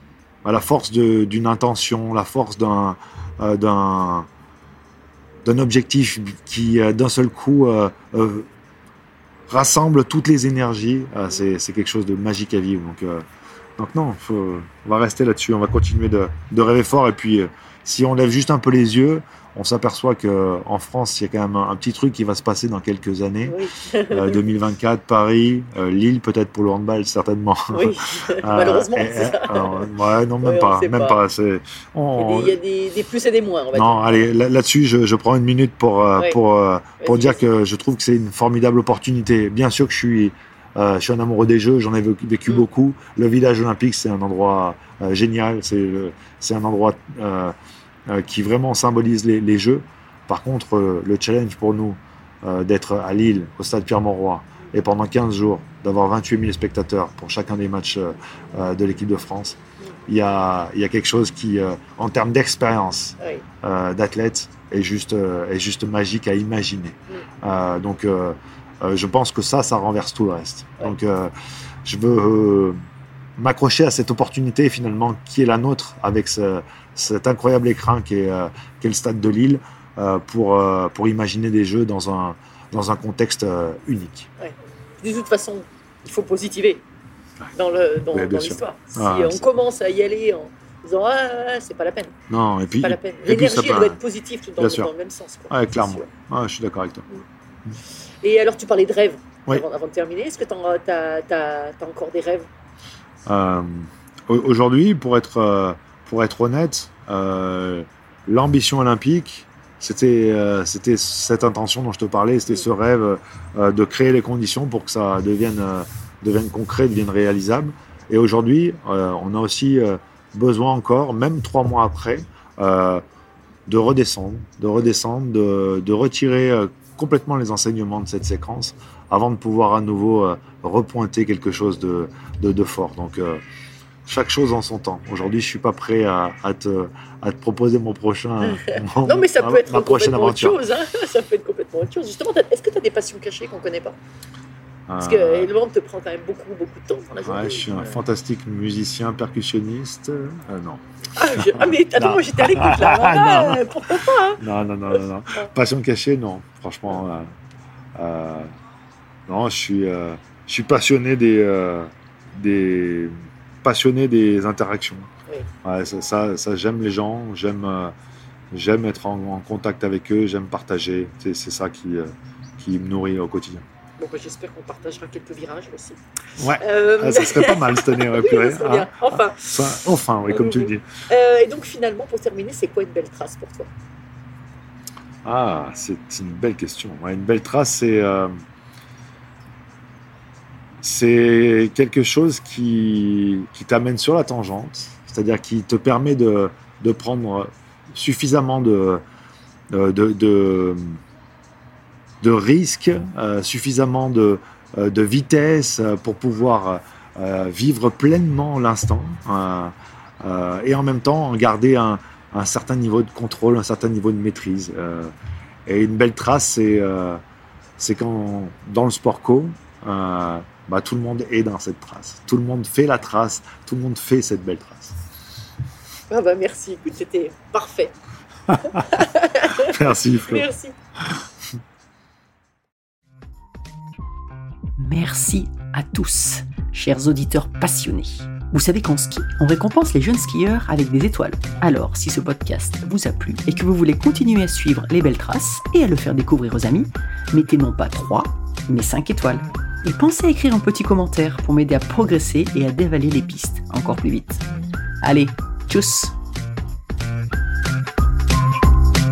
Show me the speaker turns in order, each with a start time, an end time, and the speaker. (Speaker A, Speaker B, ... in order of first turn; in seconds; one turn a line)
Speaker A: 0.4-4.3
Speaker A: 5.4-8.5
Speaker A: 9.5-13.2
Speaker A: 13.8-23.6
Speaker B: 23.4-24.4
Speaker A: 24.1-32.6
Speaker B: 27.7-29.9
Speaker B: 30.4-31.2
Speaker B: 32.2-34.3
Speaker A: 33.7-47.5
Speaker B: 37.0-37.4
Speaker A: 48.1-71.3
Speaker A: 71.8-72.8
Speaker A: 73.4-84.3
Speaker B: 84.4-86.8
Speaker B: 87.6-92.1
Speaker A: 88.1-89.4
Speaker A: 92.3-94.0
Speaker B: 92.8-96.1
Speaker A: 94.6-94.9
Speaker A: 95.5-97.1
Speaker B: 98.2-102.5
Speaker A: 103.3-123.0
Speaker A: 123.7-133.4
Speaker A: 134.1-140.6
Speaker B: 138.4-144.0
Speaker A: 144.9-145.5
Speaker B: 145.0-148.0
Speaker A: 147.2-153.7
Speaker B: 151.2-154.4
Speaker A: 154.4-157.3
Speaker A: 157.9-158.5
Speaker A: 159.3-165.1
Speaker A: 165.6-167.9
Speaker A: 168.5-173.7
Speaker B: 174.0-176.0
Speaker A: 176.4-180.9
Speaker B: 176.6-179.6
Speaker B: 180.3-183.7
Speaker A: 185.2-188.3
Speaker A: 190.8-199.0
Speaker A: 199.7-201.0
Speaker A: 202.2-215.1
Speaker A: 215.7-217.2
Speaker A: 217.8-225.0
Speaker B: 226.1-227.9
Speaker A: 228.5-228.8
Speaker B: 228.6-230.8
Speaker A: 229.6-230.5
Speaker C: 234.8-254.4
Speaker C: 255.0-256.1